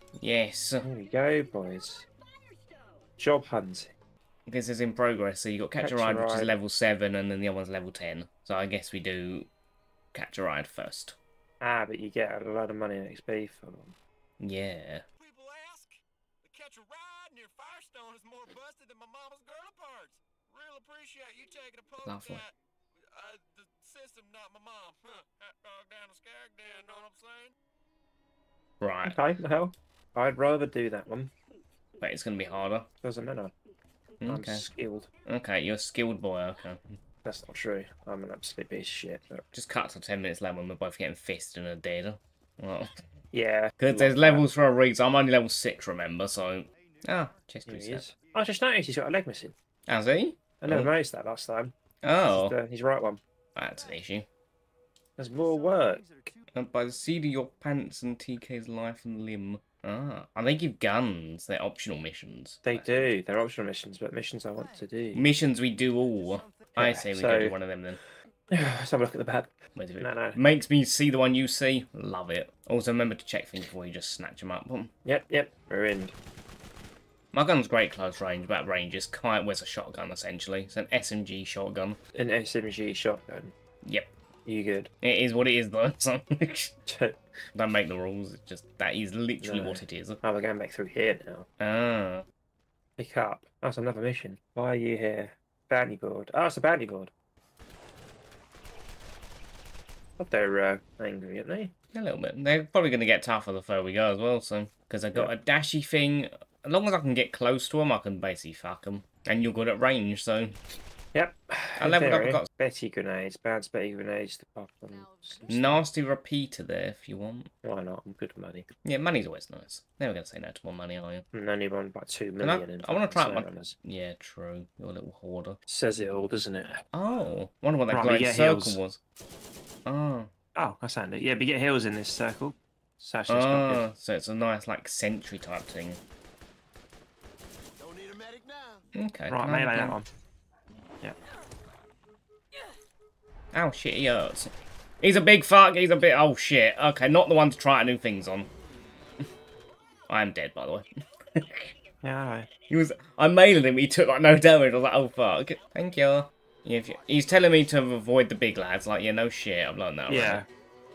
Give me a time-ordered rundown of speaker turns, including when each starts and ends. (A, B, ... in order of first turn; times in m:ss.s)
0:00.2-0:00.9 A
0:00.8-0:02.1 B
0:03.2-0:03.9 B
0:04.5-0:09.5 A
0:05.8-0:06.5 B
0:10.1-0:11.2 A
0:11.6-0:14.0 B
0:14.4-0:15.0 A
0:15.2-0:22.5 C
0:22.0-0:22.5 A
0:23.1-0:27.5 C
0:28.8-0:29.2 A
0:29.0-0:31.3 B
0:32.0-0:32.9 A
0:33.0-0:33.6 B
0:34.2-0:34.7 A
0:34.2-0:35.1 B
0:35.3-0:37.0 A
0:37.2-0:39.4 B
0:39.5-0:42.9 A
0:43.3-0:44.4 B
0:43.8-0:48.0 A
0:47.7-0:49.6 B
0:49.9-0:50.9 A
0:50.6-0:53.2 B
0:52.0-0:52.6 A
0:53.6-0:54.3 A
0:55.2-0:56.3 B
0:56.5-1:03.1 A
1:02.6-1:05.2 B
1:05.1-1:08.0 A
1:06.8-1:07.6 B
1:08.5-1:10.4 B
1:09.8-1:14.9 A
1:15.0-1:16.2 B
1:17.3-1:22.0 A
1:22.1-1:23.6 B
1:23.8-1:24.1 A
1:24.4-1:24.9 B
1:25.0-1:26.8 A
1:26.9-1:27.2 B
1:27.6-1:30.2 A
1:29.4-1:31.5 B
1:31.6-1:32.3 A
1:33.0-1:37.1 B
1:40.2-1:41.7 B
1:41.9-1:50.6 A
1:51.1-1:55.6 B
1:51.8-1:52.5 A
1:55.5-1:57.5 A
1:57.6-1:58.7 B
1:58.8-2:01.3 A
2:01.3-2:03.8 B
2:02.4-2:05.6 A
2:05.7-2:06.8 B
2:06.9-2:09.0 A
2:07.9-2:08.8 B
2:09.9-2:10.3 A
2:10.6-2:13.9 B
2:13.3-2:16.0 A
2:19.0-2:20.0 A
2:19.3-2:20.1 B
2:23.5-2:28.5 A
2:30.1-2:31.7 A
2:32.0-2:32.5 B
2:32.7-2:40.4 A
2:40.1-2:40.5 B